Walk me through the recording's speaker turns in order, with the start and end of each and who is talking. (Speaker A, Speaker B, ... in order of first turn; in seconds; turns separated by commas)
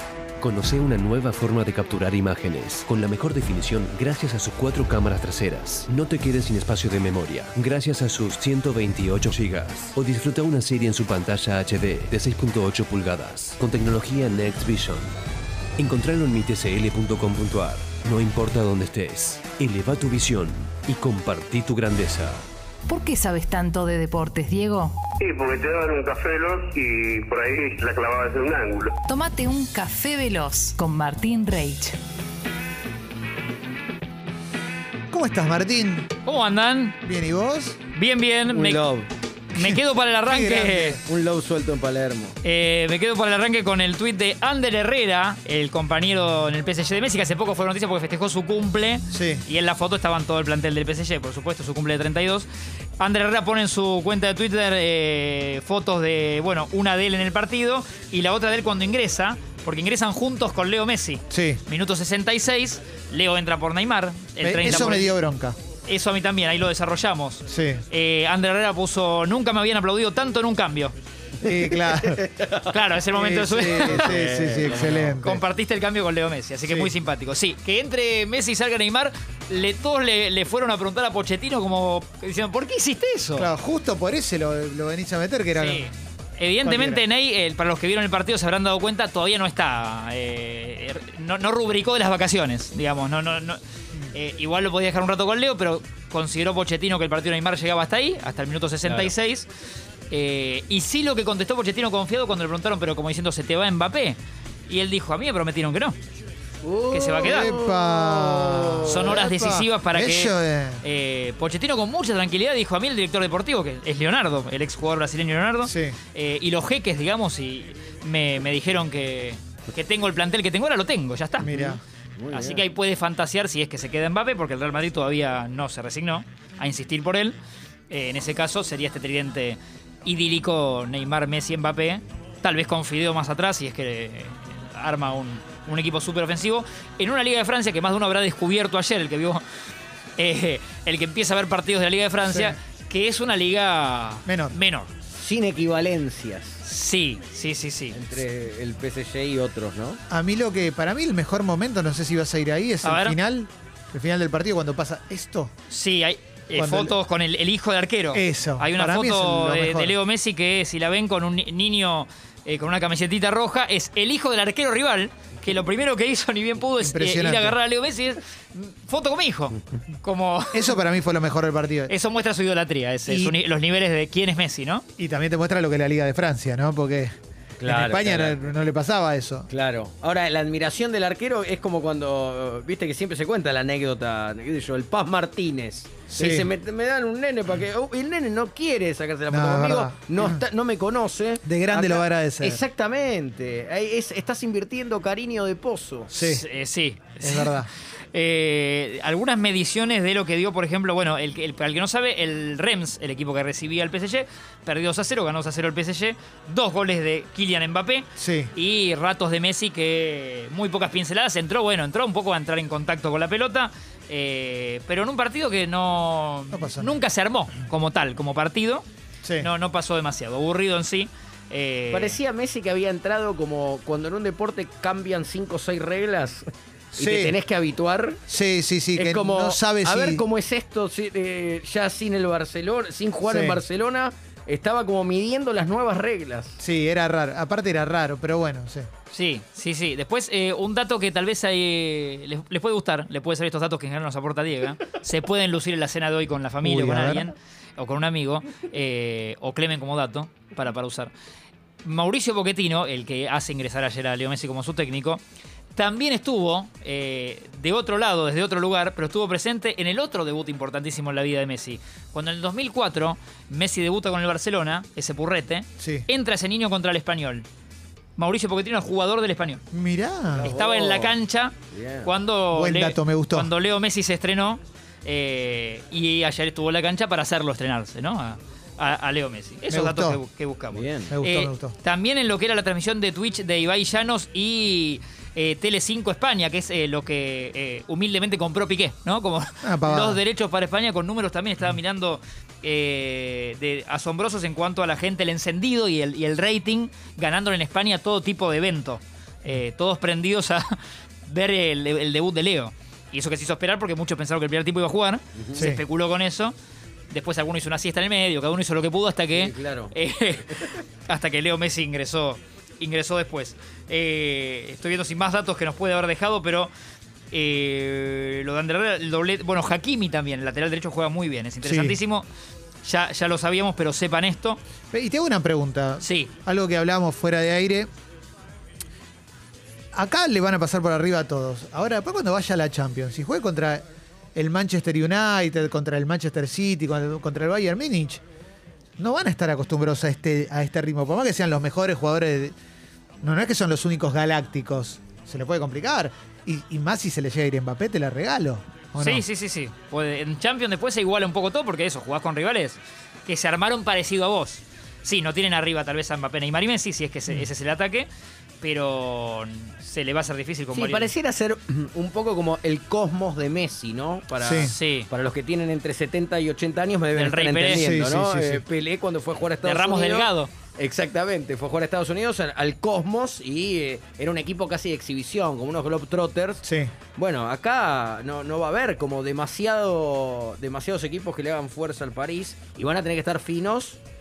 Speaker A: 0.4-15.2, Speaker A: 15.8-22.5, Speaker B: 22.9-25.0, Speaker C: 25.2-29.0, Speaker B: 29.1-32.0, Speaker D: 35.1-36.1, Speaker E: 36.2-37.0, Speaker D: 37.0-37.8, Speaker E: 37.9-38.8, Speaker F: 38.5-39.1, Speaker D: 39.5-40.9, Speaker E: 39.6-40.8, Speaker F: 40.7-42.4, Speaker E: 42.4-52.5, Speaker D: 49.1-49.5, Speaker E: 53.0-65.1, Speaker D: 61.3-61.6, Speaker D: 64.4-65.6, Speaker E: 65.8-71.0, Speaker D: 67.5-67.8, Speaker D: 71.4-72.3, Speaker F: 71.8-72.7, Speaker E: 72.7-73.8, Speaker D: 73.0-75.4, Speaker F: 73.8-75.2, Speaker E: 75.2-83.5, Speaker D: 76.7-76.9, Speaker D: 83.4-85.9, Speaker E: 85.6-93.6, Speaker D: 86.6-87.0, Speaker E: 94.1-99.5, Speaker F: 98.8-99.1, Speaker E: 100.1-106.0, Speaker F: 106.6-109.3, Speaker E: 106.9-107.4, Speaker D: 107.2-110.8, Speaker E: 109.0-110.3, Speaker E: 110.8-121.4, Speaker D: 115.6-116.0, Speaker D: 121.4-121.8, Speaker F: 121.4-122.7, Speaker E: 122.3-127.4, Speaker E: 127.9-139.4, Speaker E: 140.2-144.9, Speaker D: 142.2-142.6, Speaker D: 144.3-144.6, Speaker F: 145.1-146.6, Speaker E: 146.6-148.0, Speaker F: 147.9-150.0, Speaker D: 150.1-155.5, Speaker E: 152.8-153.2, Speaker E: 155.7-170.7, Speaker D: 156.5-156.9, Speaker D: 158.1-159.9, Speaker D: 166.8-167.6, Speaker D: 170.5-171.9, Speaker E: 171.9-174.8, Speaker D: 173.1-173.4, Speaker D: 175.0-179.5, Speaker F: 177.6-178.5, Speaker F: 179.5-196.1, Speaker D: 186.1-186.5, Speaker D: 189.3-190.4, Speaker D: 191.4-192.6, Speaker D: 196.1-196.4, Speaker E: 196.3-197.5, Speaker D: 197.2-197.7, Speaker E: 198.1-218.8, Speaker D: 208.2-208.5, Speaker D: 216.5-217.0, Speaker D: 219.2-219.5, Speaker E: 219.4-222.2, Speaker F: 221.9-228.2, Speaker D: 226.9-227.4, Speaker D: 228.3-230.2, Speaker F: 228.9-236.6, Speaker D: 233.2-233.6, Speaker D: 236.6-238.9, Speaker E: 239.1-251.1, Speaker D: 246.6-247.3, Speaker E: 251.8-255.2, Speaker E: 255.8-267.5, Speaker D: 265.8-266.1, Speaker E: 268.2-269.6, Speaker D: 269.7-270.5, Speaker F: 270.3-271.2, Speaker E: 270.5-271.6, Speaker F: 271.7-272.1, Speaker E: 272.1-306.6, Speaker D: 272.5-273.5, Speaker D: 279.7-280.2, Speaker F: 280.7-281.2, Speaker D: 281.1-281.8, Speaker D: 289.6-290.2, Speaker F: 305.4-305.7, Speaker D: 305.6-305.8, Speaker E: 307.1-310.5, Speaker F: 309.3-310.8, Speaker E: 311.1-316.7, Speaker E: 317.3-322.3, Speaker D: 321.6-322.0, Speaker E: 322.8-324.6, Speaker D: 324.9-327.9, Speaker E: 326.0-326.3, Speaker D: 329.9-338.2, Speaker D: 339.0-342.6, Speaker D: 343.2-349.2, Speaker E: 349.0-358.1, Speaker E: 358.6-361.1, Speaker F: 360.7-376.6, Speaker D: 364.4-364.7, Speaker E: 364.7-365.1, Speaker E: 367.3-367.7, Speaker D: 367.7-368.6, Speaker E: 369.7-370.6, Speaker D: 376.6-376.9, Speaker F: 377.2-384.0